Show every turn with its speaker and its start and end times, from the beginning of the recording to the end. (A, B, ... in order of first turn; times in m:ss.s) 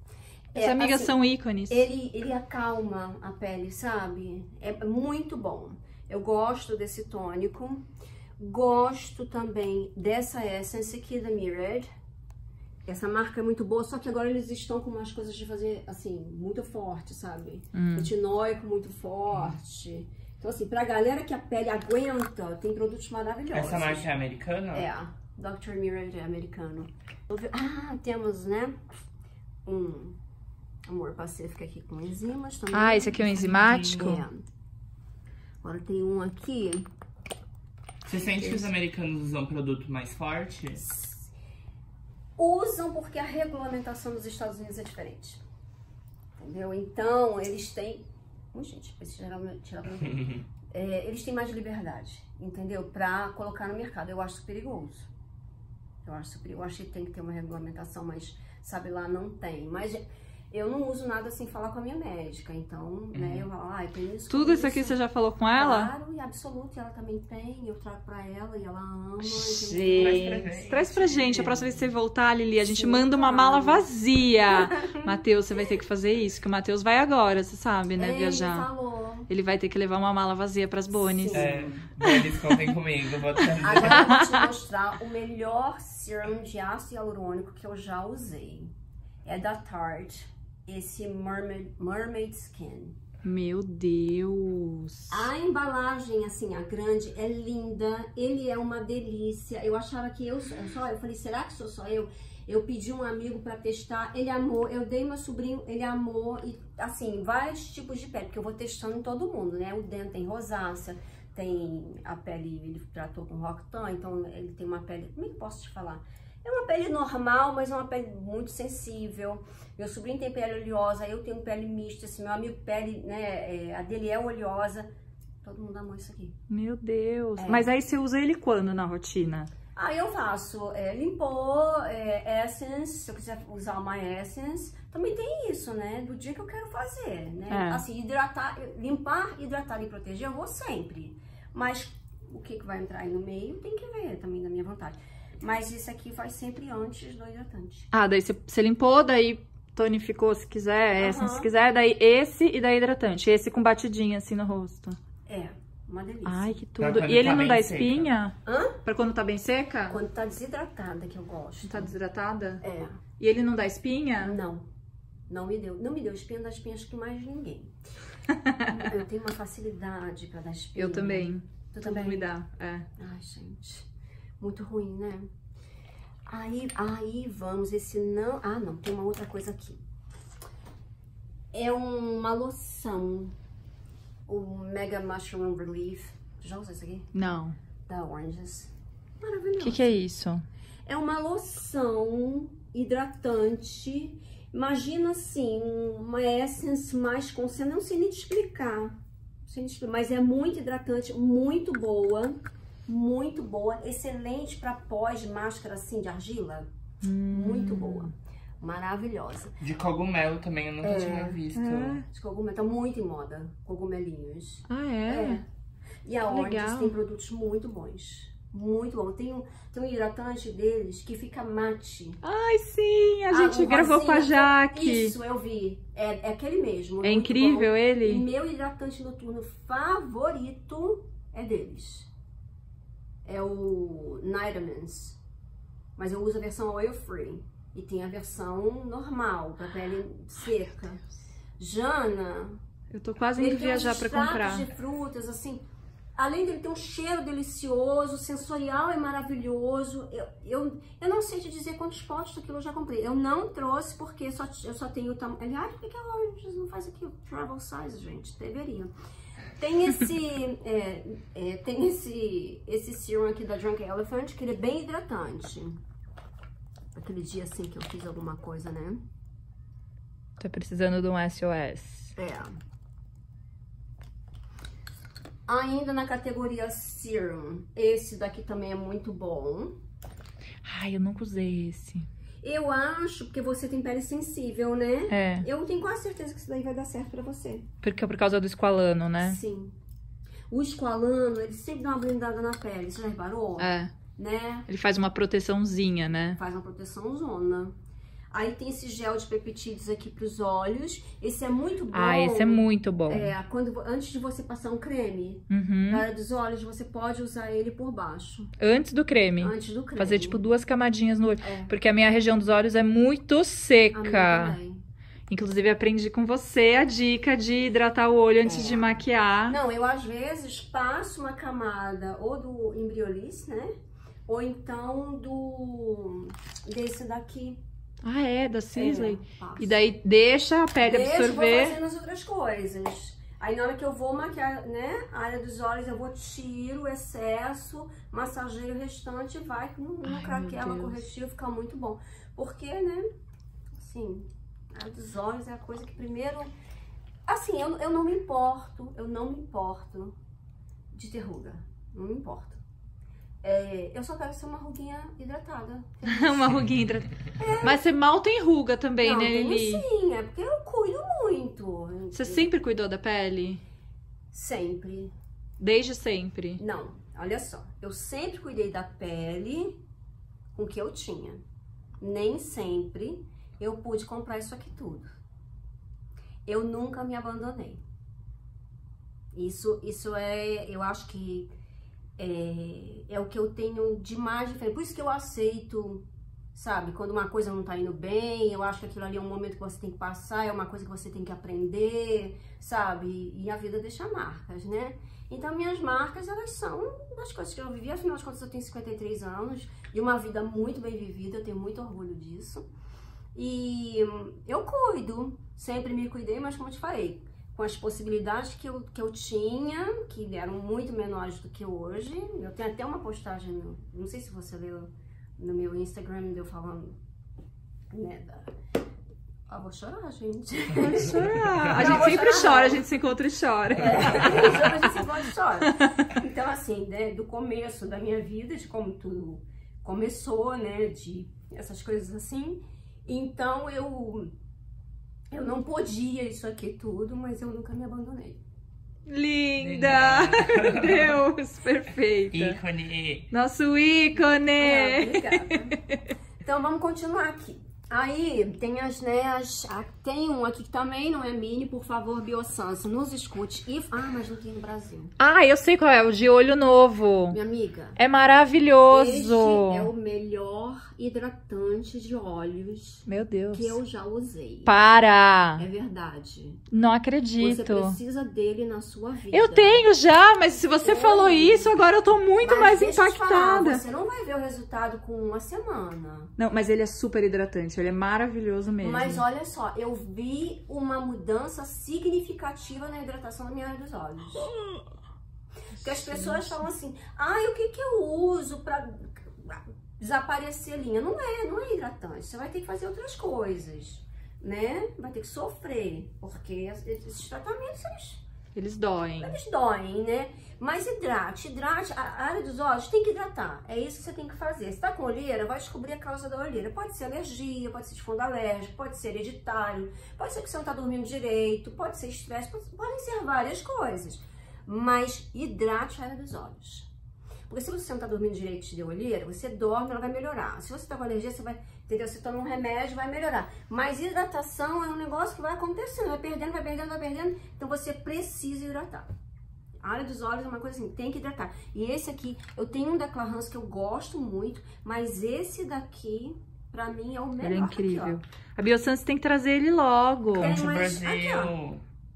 0:00.5-0:01.2 A
0:00.6-0:01.8 B
0:01.7-0:07.9 A
0:08.4-0:11.9 A
0:12.9-0:24.1 A
0:17.7-0:18.1 B
0:23.5-0:24.9 C
0:24.7-0:28.8 A
0:29.6-0:30.2 A
0:30.9-0:34.4 A
0:32.7-0:34.2 B
0:33.5-0:34.2 C
0:35.6-0:36.9 A
0:38.0-0:40.8 C
0:38.4-0:38.7 B
0:40.8-0:41.3 A
0:42.4-0:45.4 A
0:46.4-0:55.1 A
0:56.0-1:05.0 A
1:03.1-1:03.5 C
1:04.3-1:05.9 B
1:05.6-1:11.8 A
1:09.2-1:18.7 B
1:09.9-1:10.9 C
1:12.6-1:13.9 A
1:14.5-1:15.0 A
1:18.0-1:19.3 A
1:19.3-1:21.5 B
1:20.9-1:21.8 A
1:21.3-1:24.2 C
1:22.0-1:22.5 B
1:23.6-1:28.7 A
1:23.9-1:24.4 B
1:29.2-1:33.0 A
1:33.2-1:35.2 B
1:35.1-2:04.9 A
2:05.4-2:06.4 A
2:06.5-2:09.5 B
2:07.4-2:07.7 A
2:09.8-2:27.9 A
2:17.5-2:17.8 B
2:27.9-2:35.0 B
2:31.0-2:31.5 A
2:35.3-2:36.6 A
2:36.2-2:40.0 B
2:36.8-2:38.1 C
2:38.4-2:38.8 A
2:39.9-2:41.9 A
2:41.6-2:42.6 B
2:42.6-2:43.0 A
2:43.2-2:44.4 B
2:44.2-2:44.6 A
2:45.3-2:47.8 A
2:48.3-2:48.7 B
2:48.7-2:52.3 A
2:50.7-2:52.9 B
2:53.0-2:53.9 A
2:54.4-2:55.3 A
2:56.3-2:59.8 A
3:01.5-3:03.3 A
3:04.3-3:07.1 A
3:07.1-3:07.6 B
3:07.9-3:10.0 A
3:09.6-3:10.4 B
3:10.8-3:26.7 A
3:27.0-3:28.1 B
3:27.3-3:29.6 A
3:29.6-3:32.0 C
3:30.8-3:31.4 A
3:31.5-3:32.1 B
3:32.1-3:35.4 A
3:34.7-3:35.4 B
3:36.0-3:42.2 A
3:36.3-3:36.9 B
3:42.2-3:45.1 B
3:43.3-3:52.1 A
3:47.0-3:48.2 B
3:53.2-3:55.2 A
3:56.0-4:01.0 A
4:01.6-4:02.6 A
4:02.9-4:04.7 B
4:03.4-4:05.6 A
4:06.2-4:18.9 A
4:19.6-4:25.8 A
4:26.9-4:29.0 A
4:30.4-4:32.1 B
4:32.2-4:32.5 A
4:35.5-4:39.8 A
4:40.6-4:42.0 B
4:42.4-4:47.7 A
4:45.1-4:45.5 B
4:47.8-4:49.4 B
4:49.2-4:49.7 A
4:50.5-4:54.7 A
4:53.6-4:53.9 B
4:54.7-4:56.4 B
4:56.4-4:57.7 A
4:58.3-5:08.5 A
5:01.9-5:03.3 B
5:05.5-5:06.0 B
5:08.6-5:14.6 B
5:09.4-5:10.5 A
5:11.4-5:11.7 A
5:13.9-5:14.8 A
5:15.3-5:19.6 B
5:18.4-5:23.7 A
5:24.3-5:27.6 A
5:28.0-5:31.8 B
5:28.8-5:29.9 A
5:30.8-5:43.1 A
5:40.0-5:41.0 B
5:43.8-5:46.5 A
5:47.3-5:50.1 A
5:50.9-5:52.6 A
5:53.4-5:56.6 A
5:56.0-5:59.8 B
5:57.4-5:57.8 A
5:59.0-6:02.5 A
6:02.1-6:03.6 B
6:04.3-6:05.1 A
6:05.6-6:06.6 B
6:06.6-6:09.8 A
6:10.5-6:11.4 A
6:12.0-6:15.1 A
6:16.4-6:17.8 A
6:19.3-6:21.5 A
6:22.2-6:42.6 A
6:43.3-6:57.0 A
6:57.9-6:58.5 A
6:59.5-7:02.8 A
7:00.8-7:05.0 B
7:01.1-7:02.1 C
7:03.8-7:14.3 A
7:04.1-7:04.4 C
7:15.3-7:18.4 A
7:19.1-7:22.6 B
7:19.6-7:21.2 C
7:22.3-7:23.3 C
7:23.3-7:26.0 B
7:24.6-7:25.8 A
7:26.4-7:35.1 A
7:35.2-7:37.4 B
7:37.3-7:38.0 A
7:38.0-7:39.9 B
7:38.9-7:44.7 A
7:43.0-7:43.8 B
7:44.6-7:45.6 B
7:45.6-7:46.6 A
7:46.7-7:48.0 B
7:47.4-7:49.8 A
7:49.3-7:53.8 B
7:50.8-7:51.7 A
7:52.4-7:56.3 A
7:56.4-7:59.2 B
7:58.8-8:04.5 A
8:04.4-8:04.8 B
8:05.8-8:18.2 A
8:05.8-8:06.6 B
8:18.5-8:19.4 B
8:19.2-8:36.9 A
8:37.5-8:49.1 A
8:49.8-8:58.2 A
8:57.4-9:00.6 B
9:00.4-9:01.5 A
9:00.4-9:01.8 C